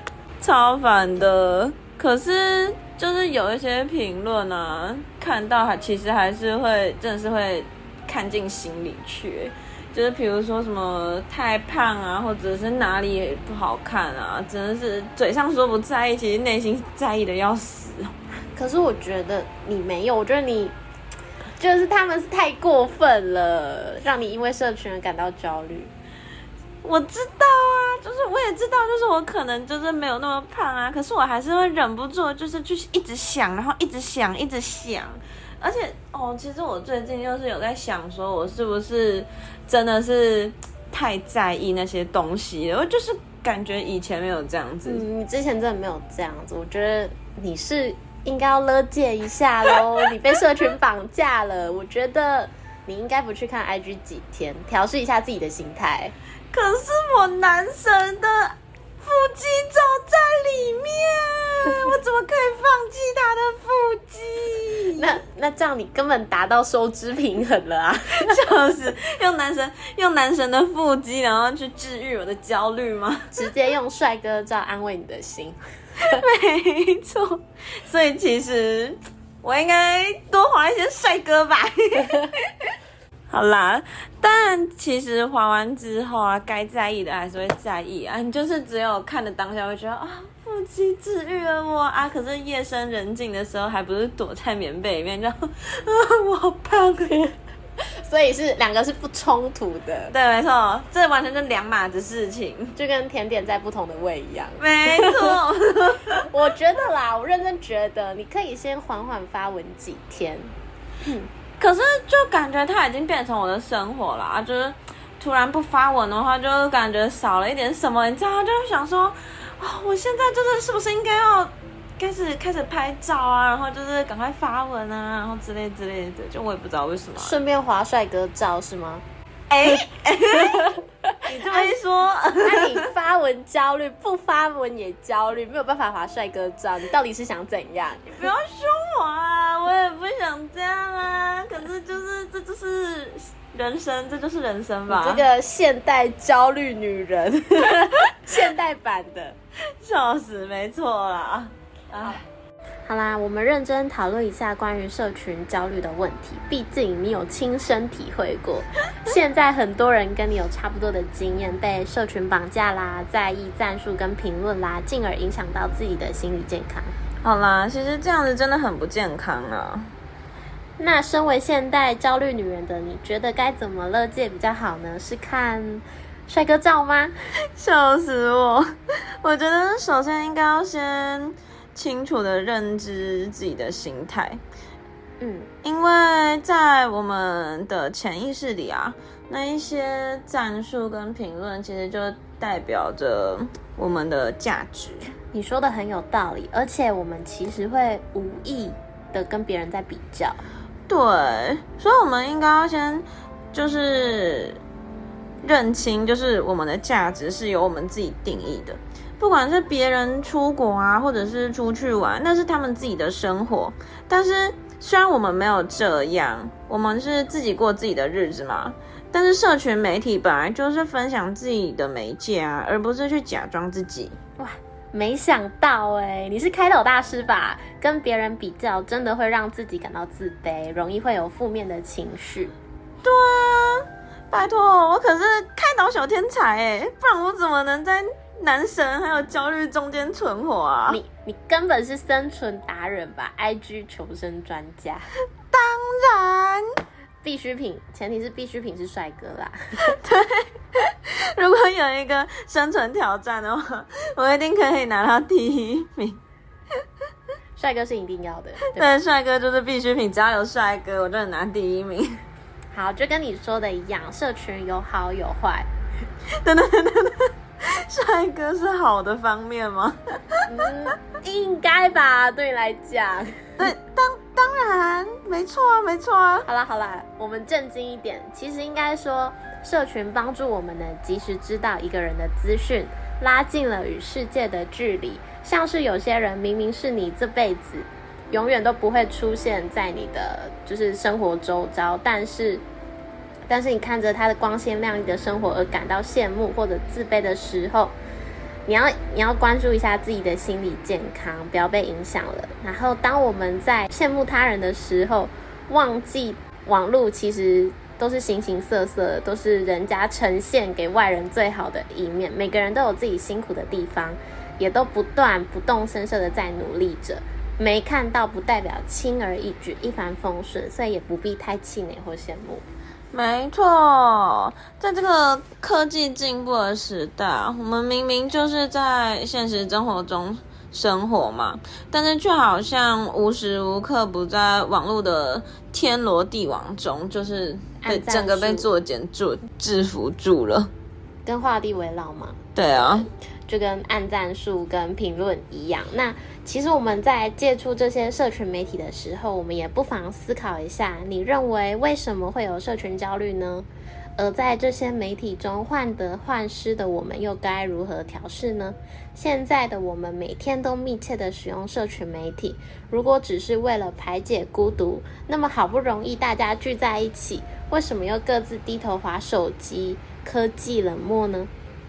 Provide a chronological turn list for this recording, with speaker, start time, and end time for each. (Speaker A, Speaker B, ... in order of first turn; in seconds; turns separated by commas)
Speaker A: 0.4-18.1, Speaker B: 18.5-20.7, Speaker B: 21.6-25.9, Speaker A: 26.8-45.0, Speaker B: 44.8-56.1, Speaker A: 56.5-65.1, Speaker B: 65.0-68.3, Speaker A: 68.1-73.4, Speaker B: 73.3-76.1, Speaker A: 76.0-82.8, Speaker A: 83.3-97.2, Speaker B: 98.0-100.1, Speaker A: 100.1-102.7, Speaker B: 102.8-105.4, Speaker A: 104.6-106.3, Speaker B: 106.2-111.3, Speaker A: 111.6-127.4, Speaker B: 127.2-129.0, Speaker A: 129.5-132.9, Speaker B: 130.5-131.7, Speaker B: 132.4-138.0, Speaker A: 138.0-145.2, Speaker B: 144.9-149.4, Speaker A: 149.8-152.2, Speaker B: 152.8-166.9, Speaker A: 167.2-169.9, Speaker B: 170.8-177.1, Speaker A: 177.5-184.4, Speaker B: 185.2-185.5, Speaker A: 185.6-195.1, Speaker B: 195.3-200.4, Speaker A: 200.9-204.6, Speaker A: 205.4-224.2, Speaker B: 224.4-232.5, Speaker A: 233.0-241.0, Speaker B: 240.9-245.0, Speaker A: 245.5-246.7, Speaker B: 247.2-249.9, Speaker A: 249.9-256.2, Speaker B: 257.5-259.0, Speaker A: 258.7-262.2, Speaker B: 262.7-265.7, Speaker A: 266.4-270.5, Speaker B: 270.5-273.6, Speaker A: 273.6-276.5, Speaker B: 276.4-292.6, Speaker B: 293.5-297.9, Speaker B: 298.6-322.6, Speaker A: 323.1-340.7, Speaker B: 337.8-338.7, Speaker B: 341.2-342.4, Speaker A: 342.5-343.1, Speaker B: 343.4-353.7, Speaker B: 354.2-371.5